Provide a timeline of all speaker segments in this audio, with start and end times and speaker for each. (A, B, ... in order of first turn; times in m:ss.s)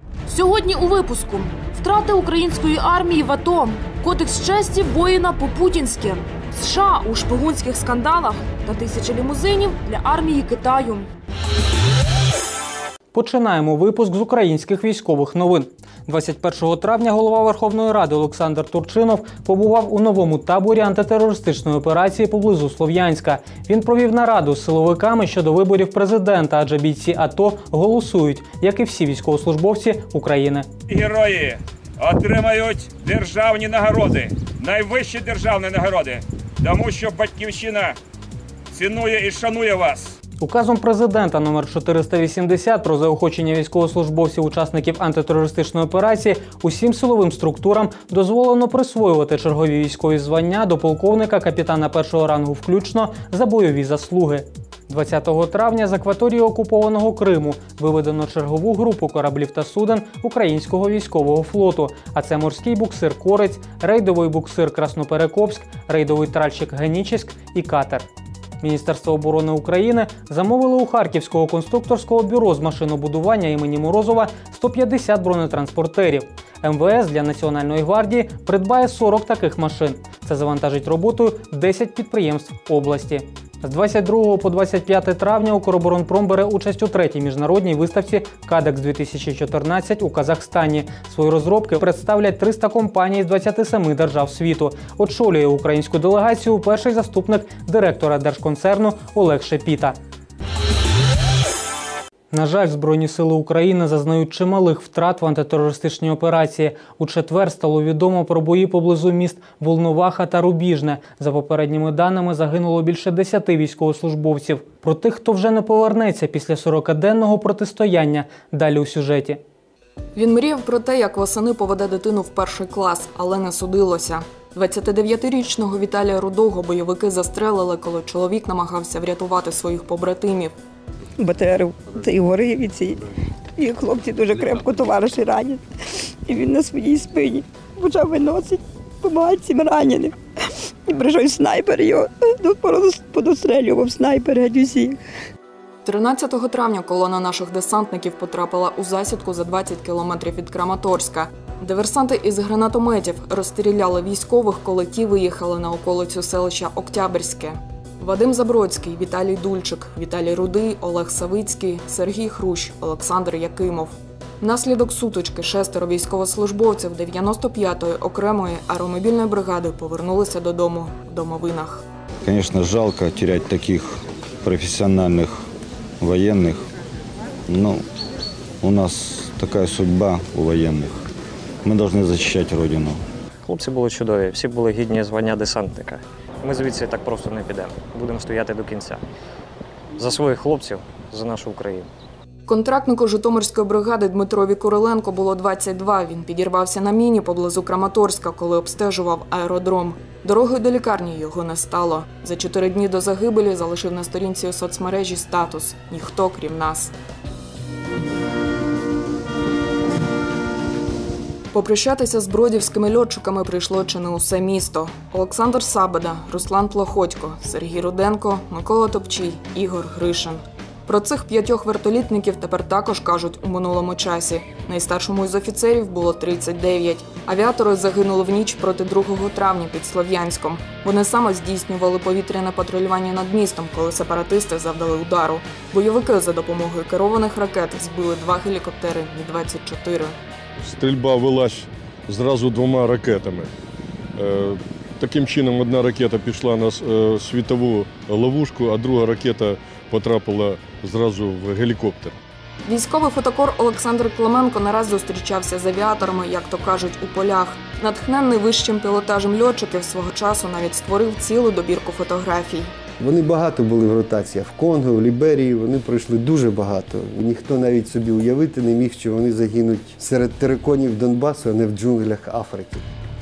0:00.3-0:11.1 A
0:13.1-0:30.7 B
0:30.9-0:37.9 C
0:38.7-0:40.1 C
0:40.4-1:08.0 B
1:08.6-1:40.0 B
1:42.3-1:59.4 B
2:00.1-2:10.5 D
2:11.2-2:12.9 E
2:13.6-2:15.6 E
2:16.3-2:20.1 E
2:20.9-2:25.0 E
2:25.8-2:51.8 D
2:52.2-2:55.4 F
2:56.0-2:56.6 F
2:57.5-2:57.8 F
2:58.6-3:01.0 F
3:01.6-3:03.0 F
3:03.4-3:09.0 G
3:10.0-3:11.9 G
3:12.5-3:26.9 D
3:31.5-4:00.2 D
4:00.6-4:03.5 H
4:04.2-4:12.2 H
4:12.6-4:22.7 D
4:23.0-4:32.8 I